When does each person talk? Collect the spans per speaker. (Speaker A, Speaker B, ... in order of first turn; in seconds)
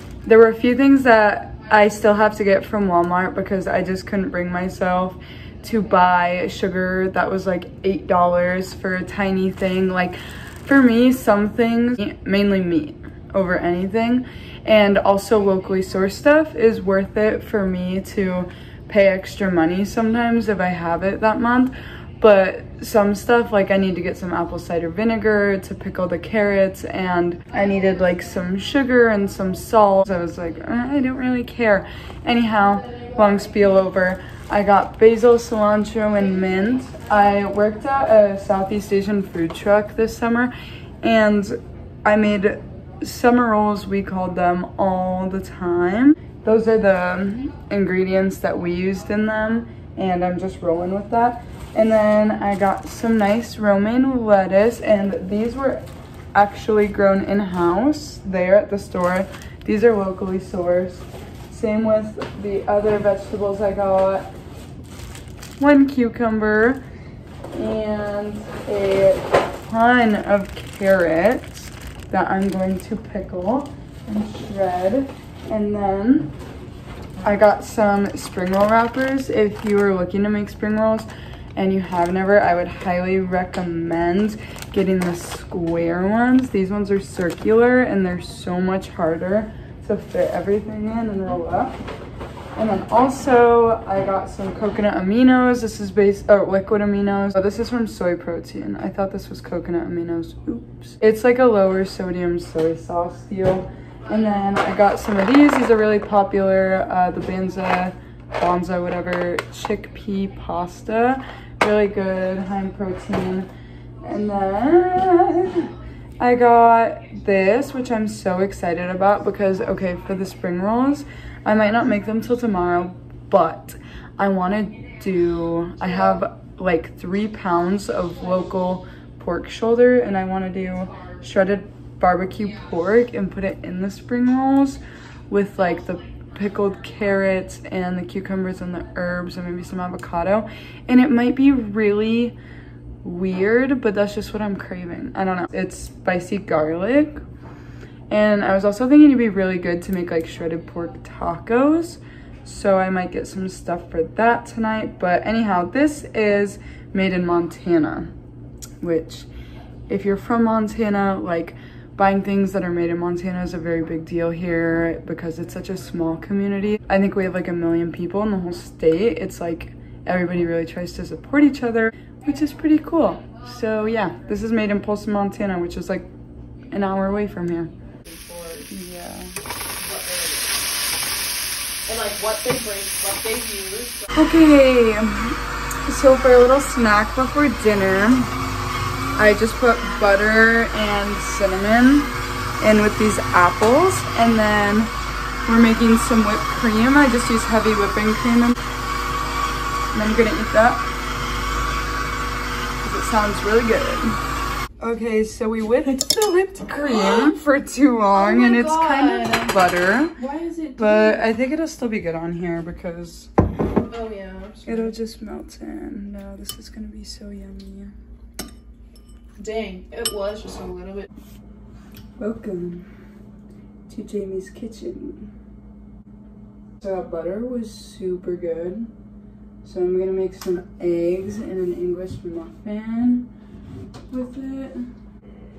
Speaker A: 0.2-64.3, 65.6-66.8, 67.5-76.3, 77.2-91.8, 92.6-113.5, 114.0-142.4, 143.0-147.2, 148.1-158.1, 158.8-159.3, 159.9-176.1, 176.7-177.7, 178.7-179.4, 184.1-188.3, 189.2-194.9, 195.4-198.6, 199.9-200.9, 202.8-204.2, 204.8-210.2, 210.8-213.3, 214.7-217.9, 222.2-222.9, 223.9-225.3, 226.8-228.9, 229.6-233.3, 234.1-234.9
Speaker B: 178.0-178.7, 179.8-180.7, 181.9-184.1, 208.1-209.6, 210.2-211.2, 213.7-214.9, 219.4-221.1